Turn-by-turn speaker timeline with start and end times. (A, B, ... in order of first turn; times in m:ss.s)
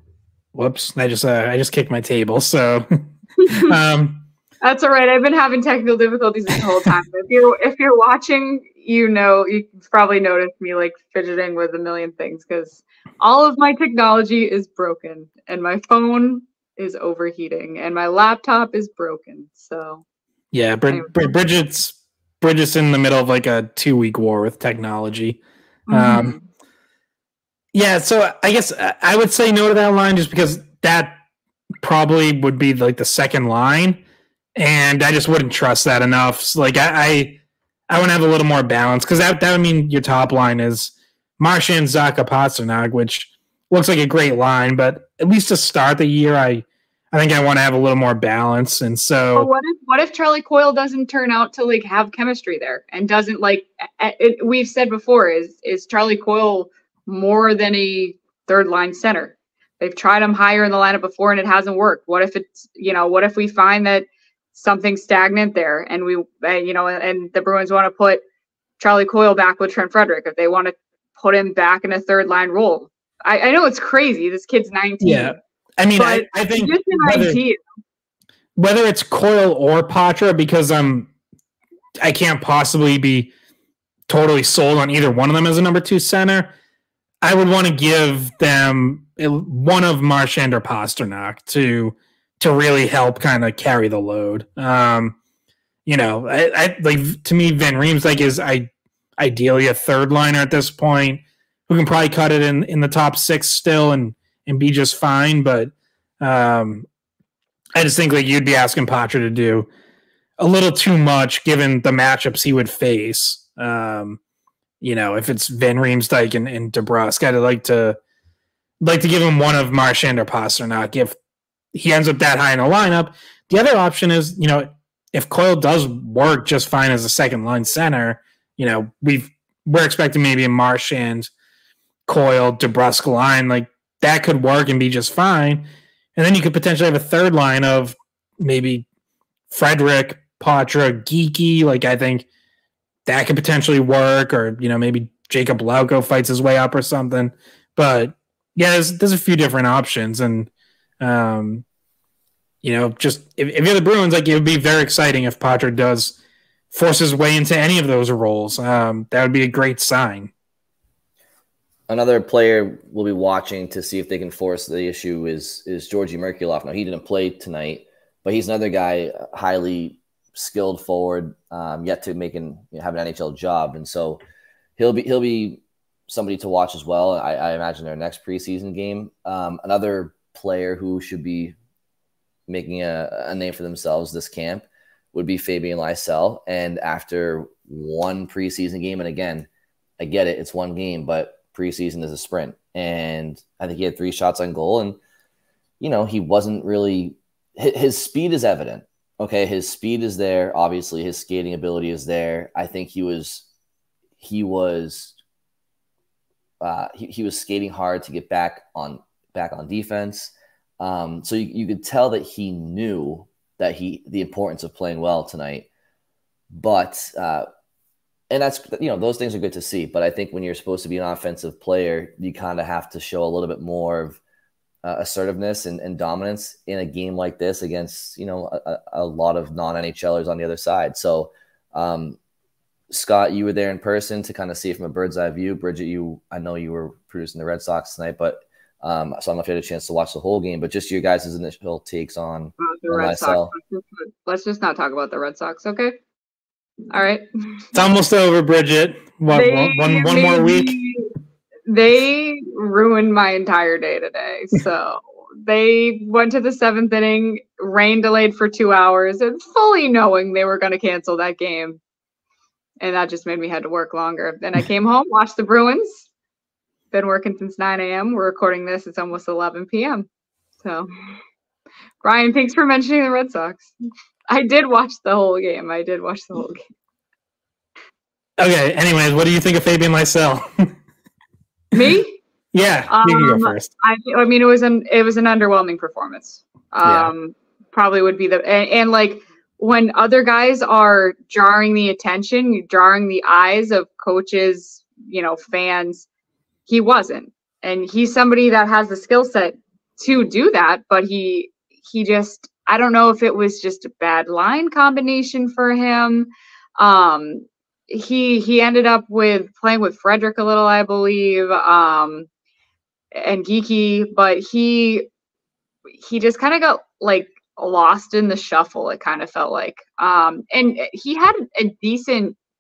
0:00.6-0:04.3 A
0:03.4-0:03.7 B
0:04.6-0:20.0 B
0:20.5-0:25.4 A
0:20.9-0:21.3 B
0:25.9-0:26.4 B
0:25.9-0:26.4 A
0:27.7-0:31.2 A
0:31.8-0:34.0 A
0:34.6-0:49.5 A
0:49.4-1:08.2 B
1:08.8-1:15.4 B
1:15.0-1:17.4 A
1:16.0-1:17.6 B
1:18.6-1:21.1 A
1:22.0-1:23.3 A
1:24.1-1:26.5 A
1:27.2-1:35.2 A
1:35.9-1:46.9 A
1:47.8-1:49.7 A
1:50.4-1:54.2 A
1:54.8-1:58.0 A
1:58.8-2:01.2 A
2:01.7-2:11.3 A
2:12.1-2:18.8 A
2:19.5-2:22.2 A
2:23.1-2:31.6 A
2:32.6-2:36.2 A
2:36.7-2:40.3 A
2:41.9-2:54.2 C
2:54.8-3:01.6 C
3:02.5-3:09.5 C
3:10.0-3:15.0 C
3:15.8-3:23.5 C
3:24.2-3:25.2 C
3:26.6-3:35.7 C
3:36.5-3:37.5 C
3:38.3-3:44.2 C
3:44.8-3:52.2 C
3:52.9-4:03.5 C
4:02.6-4:06.0 B
4:06.9-4:07.2 B
4:07.7-4:10.8 A
4:09.3-4:11.1 B
4:11.7-4:21.8 B
4:22.8-4:26.1 B
4:26.9-4:30.1 B
4:30.6-4:30.9 B
4:32.0-4:33.8 B
4:34.3-4:36.6 B
4:38.4-4:40.7 A
4:41.7-4:42.2 B
4:42.5-4:43.7 A
4:42.9-4:56.1 B
4:46.8-4:47.1 A
4:56.7-5:12.3 B
5:13.1-5:15.1 B
5:16.0-5:22.4 B